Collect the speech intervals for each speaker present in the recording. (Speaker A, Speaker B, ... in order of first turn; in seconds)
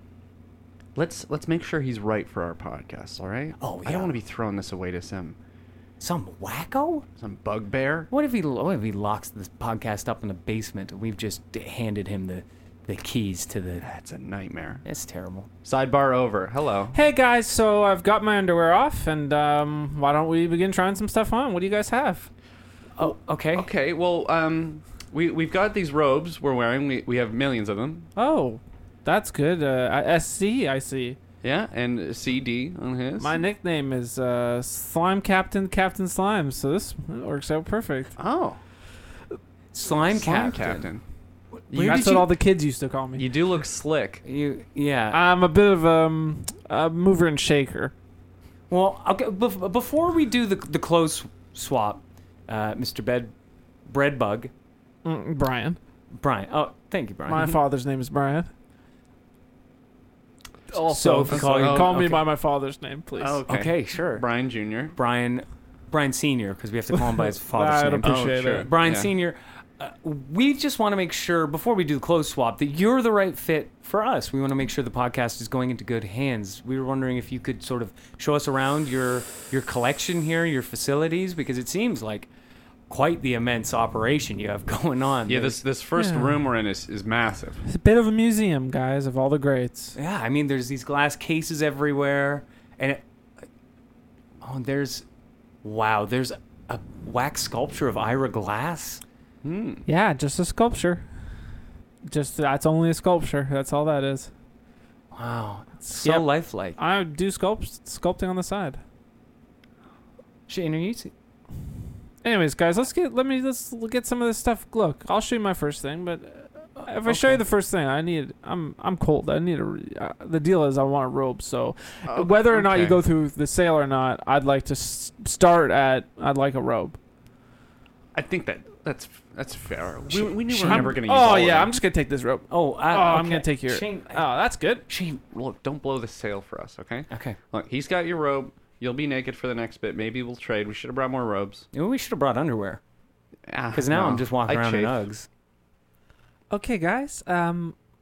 Speaker A: 0.9-5.4, 7.2-8.1, 13.8-14.8, 15.6-16.9, 23.0-28.1, 31.4-33.4, 38.2-38.6, 40.1-41.0, 41.7-42.3, 43.1-44.2, 61.3-62.2, 63.2-64.9, 68.0-69.1, 85.3-87.6, 99.4-99.8, 122.0-123.0, 128.1-131.7, 135.3-141.7, 143.5-145.0
Speaker B: 3.6-4.1, 6.0-7.0, 8.1-13.8, 14.8-15.5, 23.0-23.7, 39.7-40.9, 41.7-42.2, 44.2-45.2, 48.7-53.3, 53.9-54.5, 56.1-57.5, 60.9-62.2, 63.5-64.2, 64.9-82.3, 82.9-85.6, 90.0-93.0, 94.4-95.0, 95.6-99.0, 105.1-106.8, 110.5-111.1, 116.8-117.4, 130.5-131.0, 132.5-134.3, 134.9-135.2, 137.1-137.4, 141.7-142.8, 143.7-145.3
Speaker C: 16.9-22.3, 28.1-31.2, 33.2-38.1, 41.8-43.2, 45.1-47.9, 55.0-55.8, 57.3-58.5, 60.7-63.4, 67.2-68.7, 85.9-86.4, 87.7-90.0, 99.8-101.0, 102.0-104.3, 105.8-108.8, 112.2-127.0, 130.2-134.8, 146.5-147.8